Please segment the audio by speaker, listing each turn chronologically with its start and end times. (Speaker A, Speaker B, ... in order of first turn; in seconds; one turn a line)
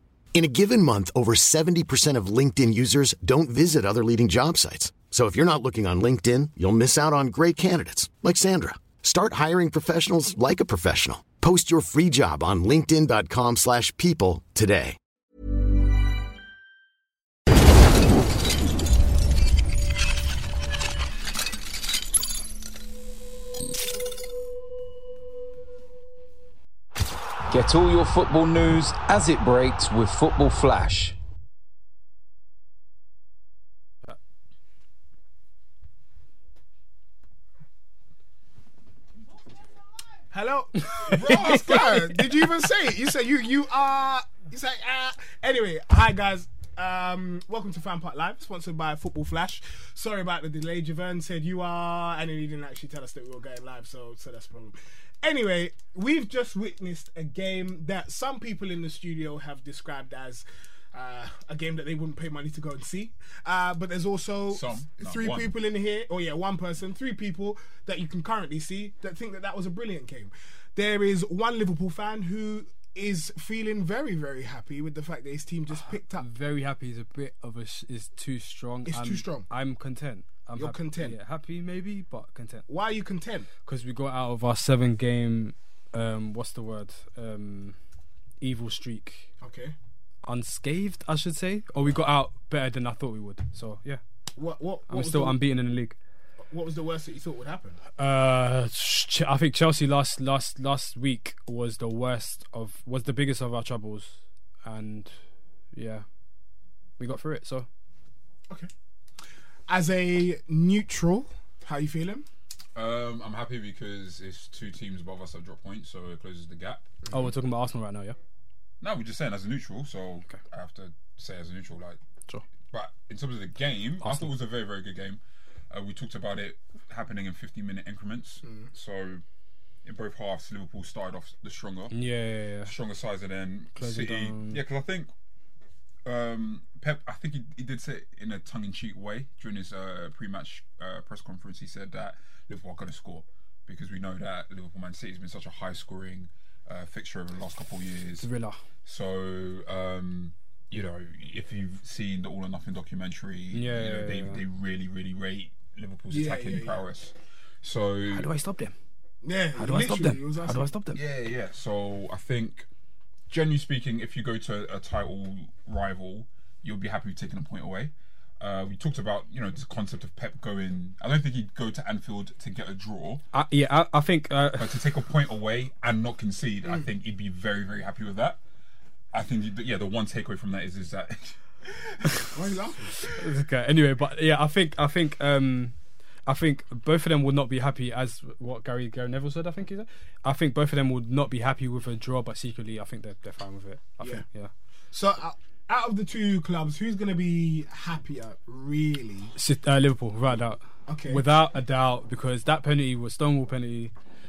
Speaker A: 0.3-15.0
Speaker B: 27.5-31.2
Speaker C: 40.3-76.3
Speaker D: 40.9-42.2
Speaker E: 41.1-42.1
Speaker E: 64.5-65.5
Speaker D: 76.0-82.7
Speaker C: 78.8-79.5
Speaker C: 80.5-81.2
Speaker C: 82.7-83.5
Speaker D: 83.7-87.8
Speaker D: 88.4-89.3
Speaker C: 89.4-89.8
Speaker D: 90.3-94.0
Speaker C: 94.3-95.4
Speaker D: 94.9-96.0
Speaker C: 96.5-97.8
Speaker D: 98.0-105.2
Speaker D: 105.7-106.0
Speaker D: 107.0-107.7
Speaker C: 109.7-112.3
Speaker E: 112.8-116.9
Speaker D: 117.1-118.2
Speaker E: 118.8-122.0
Speaker E: 122.7-125.2
Speaker D: 124.0-124.3
Speaker E: 125.7-129.2
Speaker C: 128.4-128.7
Speaker E: 129.8-132.0
Speaker D: 131.9-132.7
Speaker E: 132.7-135.1
Speaker D: 133.8-134.6
Speaker E: 136.1-148.3
Speaker D: 148.2-148.6
Speaker E: 148.8-158.3
Speaker D: 153.5-154.4
Speaker C: 156.1-156.8
Speaker D: 158.1-158.7
Speaker C: 159.2-160.7
Speaker D: 159.6-161.0
Speaker E: 160.9-162.7
Speaker E: 163.3-173.2
Speaker D: 173.3-174.8
Speaker E: 174.6-178.4
Speaker E: 179.1-182.3
Speaker C: 182.3-183.0
Speaker D: 183.1-194.5
Speaker C: 194.9-199.3
Speaker D: 199.4-203.9
Speaker C: 200.9-201.2